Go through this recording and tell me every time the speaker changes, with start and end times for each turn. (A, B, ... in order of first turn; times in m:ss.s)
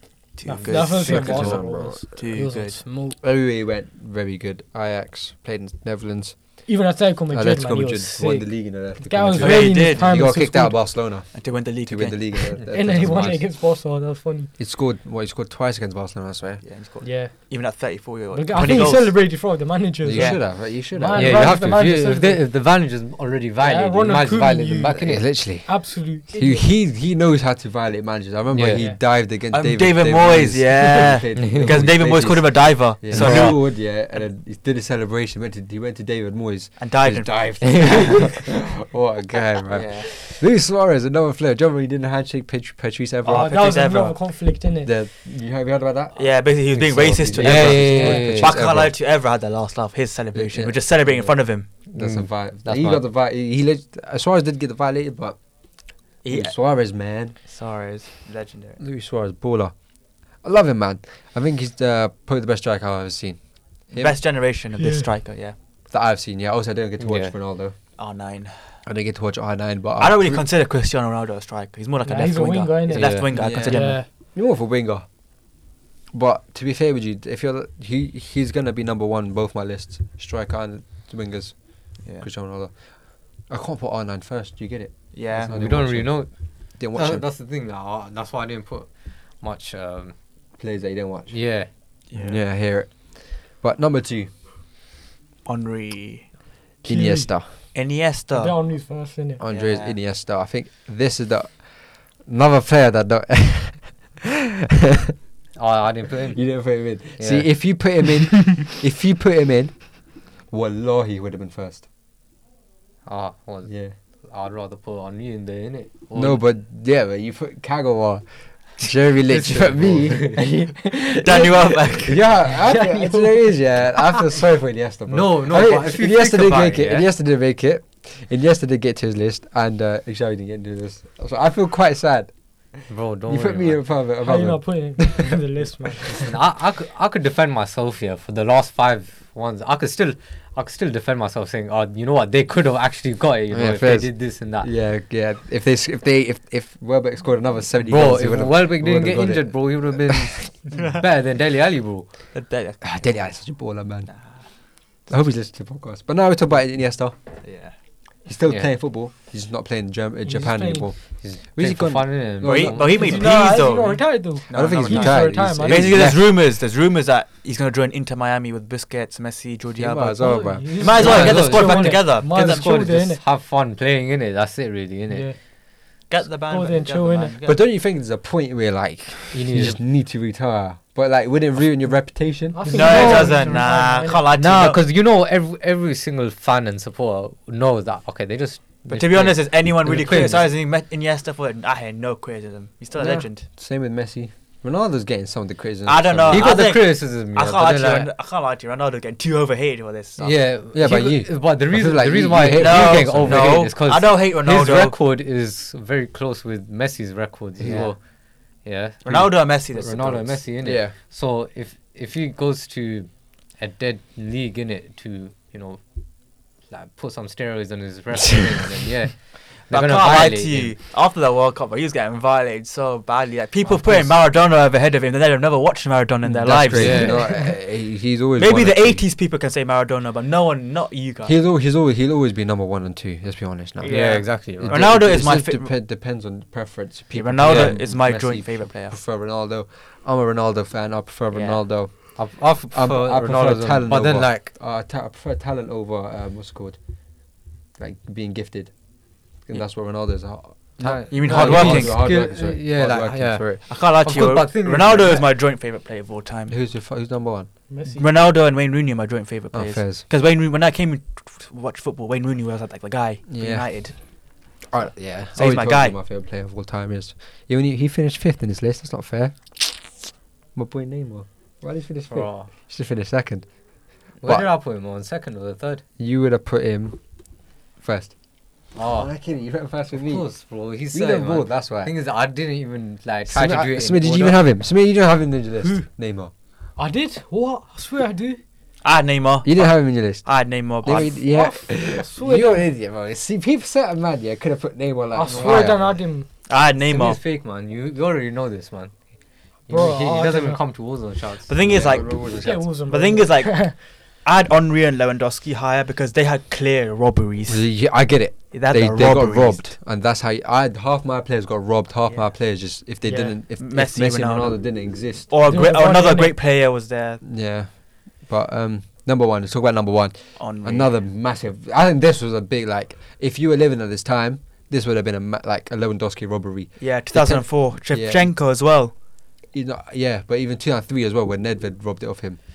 0:00.4-0:02.8 A
0:00.4-0:03.2 B
0:00.5-0:01.6 C
0:01.0-0:02.0 D
0:03.2-0:06.6 D
0:06.7-0:10.8 B
0:07.3-0:13.5 D
0:09.4-0:10.4 A
0:11.3-0:12.6 A
0:12.7-0:14.5 B
0:14.6-0:16.6 D
0:16.6-0:19.3 A
0:17.0-0:17.6 B
0:18.3-0:22.5 B
0:20.0-0:21.6 D
0:20.1-0:20.4 A
0:21.1-0:25.4 C
0:23.6-0:26.7 B
0:25.0-0:43.8 D
0:28.5-0:28.8 C
0:28.7-0:29.0 B
0:29.5-0:33.6 A
0:31.4-0:31.8 C
0:33.1-0:33.6 C
0:36.8-0:37.8 A
0:37.6-0:38.0 C
0:39.7-0:40.1 A
0:43.2-0:44.2 A
0:43.3-0:44.9 B
0:44.6-0:48.9 D
0:46.1-0:51.7 A
0:47.4-0:48.6 C
0:50.3-0:55.4 D
0:51.9-0:53.0 C
0:56.2-0:57.4 D
0:56.2-0:56.6 A
0:57.4-0:58.8 A
0:58.8-0:59.7 D
1:00.4-1:04.2 D
1:03.9-1:05.5 A
1:04.8-1:05.0 B
1:05.9-1:07.8 D
1:07.0-1:07.3 C
1:08.0-1:08.8 A
1:08.8-1:10.4 D
1:10.0-1:14.0 A
1:12.0-1:14.1 B
1:12.9-1:13.7 C
1:13.3-1:15.0 D
1:16.1-1:26.2 D
1:22.0-1:22.3 A
1:25.1-1:25.5 A
1:25.5-1:30.1 C
1:26.8-1:27.2 D
1:30.6-1:31.4 D
1:31.3-1:31.7 C
1:32.1-1:32.4 A
1:32.1-1:34.3 D
1:35.4-1:36.3 A
1:36.8-1:37.5 D
1:36.8-1:37.7 B
1:37.7-1:38.5 A
1:38.3-1:39.4 B
1:39.4-1:44.2 D
1:39.5-1:40.0 A
1:45.5-1:47.9 C
1:46.3-1:51.8 D
1:53.0-1:56.4 C
1:53.6-1:53.9 D
1:56.1-2:16.3 D
1:59.3-2:00.4 C
2:01.1-2:02.5 A
2:02.7-2:03.5 B
2:05.1-2:07.1 C
2:12.9-2:13.8 C
2:14.2-2:16.3 B
2:16.1-2:24.7 C
2:23.5-2:30.3 D
2:27.8-2:32.3 C
2:30.7-2:31.0 A
2:32.3-2:32.9 A
2:32.8-2:34.1 D
2:34.1-2:34.4 A
2:35.1-2:37.1 D
2:37.4-2:37.7 A
2:38.2-2:42.8 D
2:40.2-2:40.9 B
2:41.2-2:43.3 C
2:42.4-2:52.8 A
2:42.9-2:46.1 B
2:44.5-2:46.3 D
2:49.8-2:51.3 D
2:50.2-2:53.2 B
2:51.0-2:55.3 C
2:55.1-2:55.4 B
2:56.1-2:57.6 A
2:56.5-2:57.3 B
2:57.4-3:03.4 D
2:59.3-2:59.8 C
3:02.5-3:04.2 B
3:02.7-3:04.8 A
3:04.3-3:10.5 C
3:08.9-3:13.4 A
3:12.9-3:16.6 D
3:15.8-3:20.3 A
3:16.3-3:18.1 C
3:20.2-3:23.7 D
3:20.2-3:28.0 C
3:22.6-3:25.0 A
3:27.6-3:27.9 A
3:28.6-3:35.8 C
3:29.0-3:30.4 A
3:30.6-3:30.9 D
3:36.7-3:40.7 C
3:39.7-3:47.4 A
3:43.8-3:44.1 C
3:46.2-3:49.0 D
3:46.7-3:47.3 C
3:46.9-3:47.4 B
3:48.4-3:51.4 A
3:51.2-4:06.8 D
3:53.8-3:55.7 A
3:53.8-3:54.8 C
3:57.1-3:59.0 A
4:01.3-4:01.6 A
4:02.1-4:04.5 C
4:07.8-4:08.7 D
4:09.4-4:13.6 D
4:10.8-4:15.3 C
4:11.1-4:12.0 A
4:13.7-4:16.6 A
4:16.5-4:17.5 D
4:17.7-4:18.0 B
4:18.0-4:23.9 A
4:19.5-4:20.0 D
4:23.3-4:23.8 D
4:24.7-4:33.4 D
4:25.3-4:26.0 A
4:32.1-4:32.5 C
4:34.2-4:35.8 C
4:34.2-4:34.5 D
4:36.0-4:37.0 D
4:37.8-4:38.1 D
4:38.7-4:39.1 C
4:38.8-4:40.2 D
4:40.0-4:44.4 C
4:40.9-4:41.9 D
4:43.3-4:46.3 D
4:46.8-4:48.4 B
4:48.8-4:51.2 A
4:49.4-4:55.8 D
4:51.2-4:52.6 B
4:55.1-4:56.3 B
4:55.2-4:56.0 C
4:56.5-4:57.2 A
4:56.8-4:58.9 C
4:59.6-5:02.0 C
4:59.7-5:00.6 B
5:01.5-5:07.8 A
5:01.6-5:02.7 D
5:02.4-5:03.7 B
5:07.5-5:15.3 D
5:08.5-5:09.8 A
5:13.0-5:17.2 A
5:15.5-5:16.4 B
5:17.2-5:28.3 D
5:20.4-5:20.9 A
5:26.8-5:28.9 A
5:29.5-5:32.4 D